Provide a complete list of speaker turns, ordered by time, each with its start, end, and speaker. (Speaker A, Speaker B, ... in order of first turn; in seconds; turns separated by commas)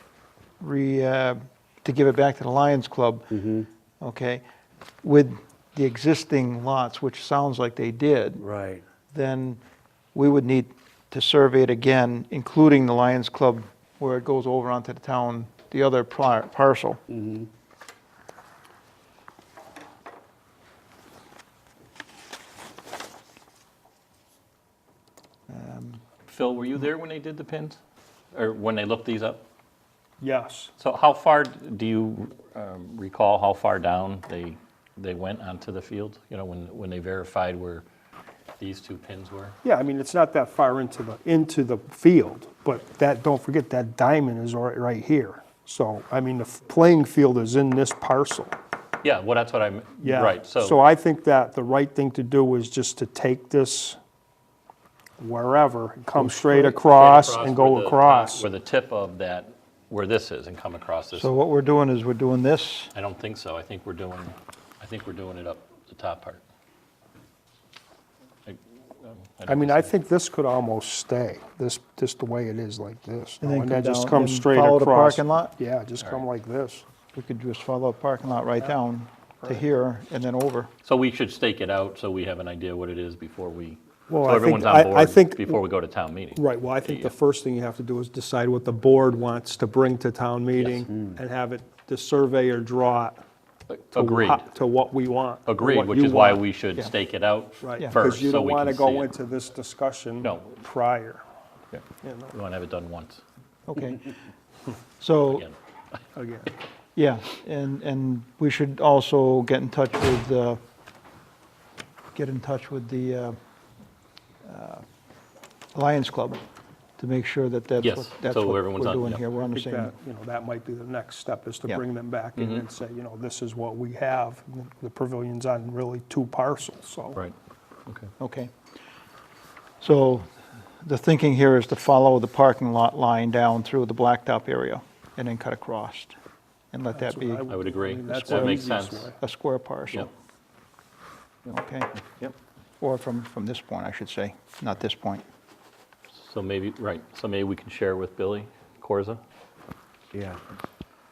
Speaker A: 0.6-3.5, Speaker B: 3.3-3.6, Speaker A: 4.0-4.4, Speaker A: 5.0-8.4, Speaker B: 8.4-8.8, Speaker A: 9.1-9.6, Speaker A: 10.1-17.0, Speaker B: 17.1-17.5, Speaker A: 25.5-26.0, Speaker C: 26.2-27.8, Speaker C: 28.3-29.4, Speaker D: 30.2-30.7, Speaker C: 30.8-37.8, Speaker C: 38.6-39.6, Speaker D: 39.6-48.6, Speaker C: 49.0-50.8, Speaker D: 50.0-54.0, Speaker D: 55.2-58.5, Speaker A: 56.1-56.8, Speaker C: 56.8-61.4, Speaker A: 61.1-62.9, Speaker C: 62.9-66.4, Speaker C: 68.5-69.9, Speaker D: 69.5-76.8, Speaker A: 73.4-75.5, Speaker A: 77.1-80.7, Speaker C: 80.8-87.1, Speaker D: 84.1-85.6, Speaker D: 86.3-93.2, Speaker B: 90.9-91.2, Speaker C: 93.7-94.5, Speaker D: 93.9-96.4, Speaker C: 95.5-99.1, Speaker D: 97.6-101.2, Speaker C: 100.2-100.6, Speaker C: 101.7-103.2, Speaker D: 102.0-102.3, Speaker A: 103.7-104.1, Speaker A: 105.0-105.4, Speaker D: 106.1-106.5, Speaker A: 107.0-110.6, Speaker A: 112.1-113.4, Speaker A: 114.4-114.8, Speaker A: 115.7-116.4, Speaker A: 117.0-119.9, Speaker C: 117.8-119.2, Speaker D: 119.4-127.2, Speaker C: 122.4-122.6, Speaker A: 128.2-128.5, Speaker A: 129.8-136.2, Speaker A: 136.7-137.4, Speaker D: 136.9-139.2, Speaker C: 137.5-139.1, Speaker A: 138.3-138.6, Speaker A: 139.2-140.1, Speaker A: 141.5-141.9, Speaker A: 142.8-145.2, Speaker C: 146.1-149.2, Speaker B: 150.1-150.4